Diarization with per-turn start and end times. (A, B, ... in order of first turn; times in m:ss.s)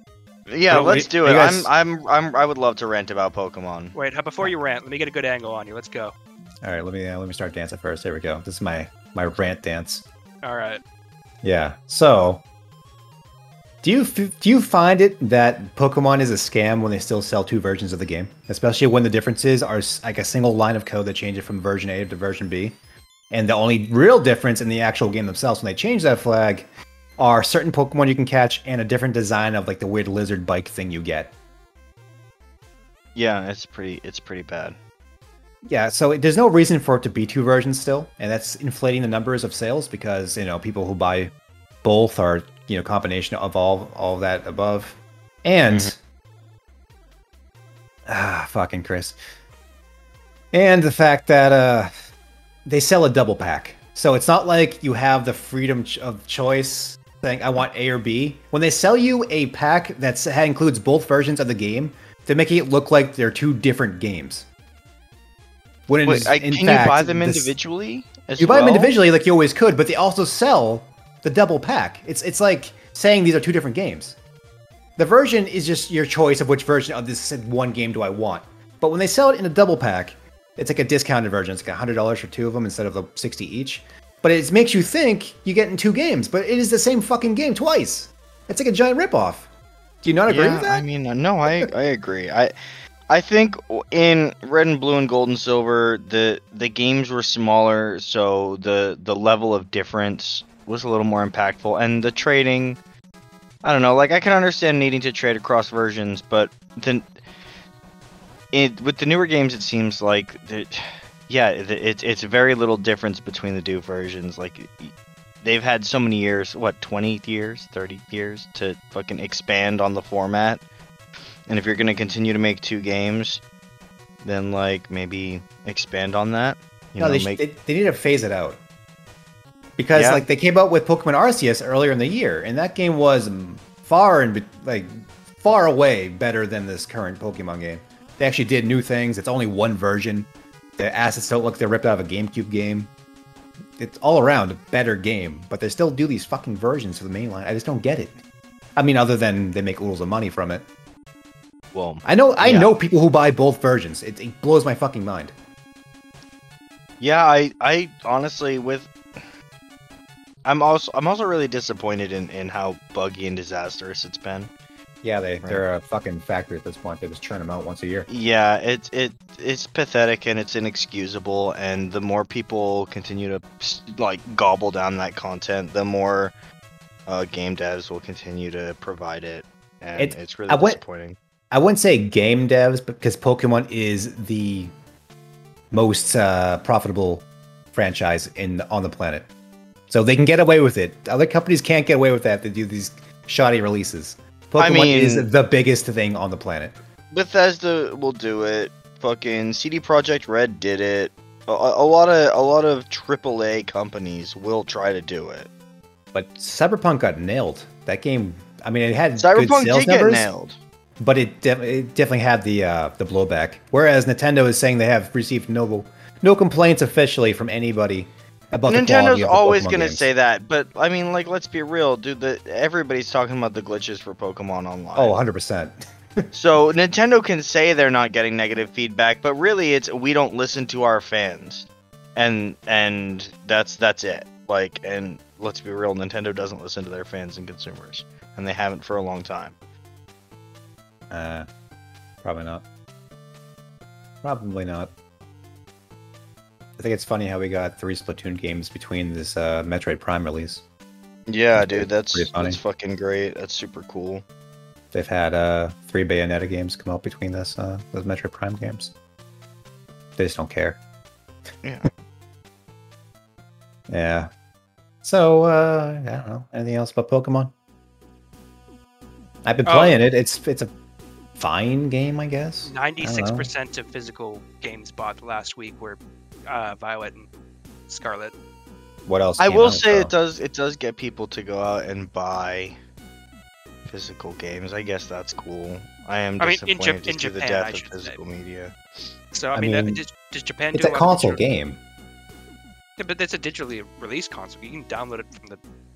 0:00.5-0:03.9 A
0:00.7-0:01.7 B
0:03.9-0:06.1 C
0:06.6-0:10.0 B
0:10.4-0:10.8 C
0:11.4-0:12.4 B
0:13.8-0:22.8 B
0:23.3-0:26.7 B
0:27.2-0:31.3 B
0:33.1-0:34.8 A
0:35.6-0:41.3 B
0:41.8-0:45.9 B
0:48.1-0:49.2 B
0:50.5-0:51.9 B
0:52.6-1:04.5 B
1:05.9-1:07.5 B
1:06.0-1:08.9 A
1:08.4-1:14.2 B
1:15.0-1:29.5 B
1:30.0-1:30.8 B
1:30.3-1:32.5 A
1:33.1-1:42.8 A
1:43.6-1:47.1 A
1:48.5-2:00.6 A
2:01.5-2:03.4 A
2:04.2-2:07.4 A
2:07.0-2:08.6 B
2:09.8-2:22.9 B
2:09.9-2:10.2 A
2:23.8-2:28.2 B
2:28.8-2:30.6 B
2:31.7-2:32.7 A
2:32.0-2:35.3 B
2:37.0-2:39.2 A
2:40.4-2:44.5 A
2:45.0-2:48.1 B
2:48.1-2:56.3 A
2:57.1-3:01.2 A
3:00.0-3:00.8 B
3:01.5-3:04.7 B
3:05.7-3:09.3 B
3:09.9-3:16.8 B
3:14.6-3:15.3 A
3:17.1-3:25.5 A
3:26.1-3:30.3 B
3:29.2-3:30.6 A
3:31.0-3:40.1 B
3:38.7-3:45.2 A
3:45.0-3:45.7 B
3:46.3-3:59.6 A
4:01.1-4:01.5 B
4:02.2-4:02.6 B
4:04.2-4:04.9 B
4:06.8-4:10.6 B
4:11.3-4:14.2 A
4:11.6-4:12.6 B
4:14.9-4:18.9 B
4:20.2-4:20.8 B
4:23.9-4:24.3 B
4:25.0-4:27.5 B
4:29.4-4:30.7 B
4:29.6-4:30.0 C
4:31.4-4:33.5 B
4:32.6-4:37.3 C
4:37.9-4:38.3 C
4:39.0-4:40.1 B
4:39.4-4:42.8 A
4:43.8-4:48.8 A
4:46.4-4:48.2 C
4:49.3-4:51.4 C
4:49.5-4:50.0 B
4:50.7-4:51.8 B
4:53.0-4:55.6 C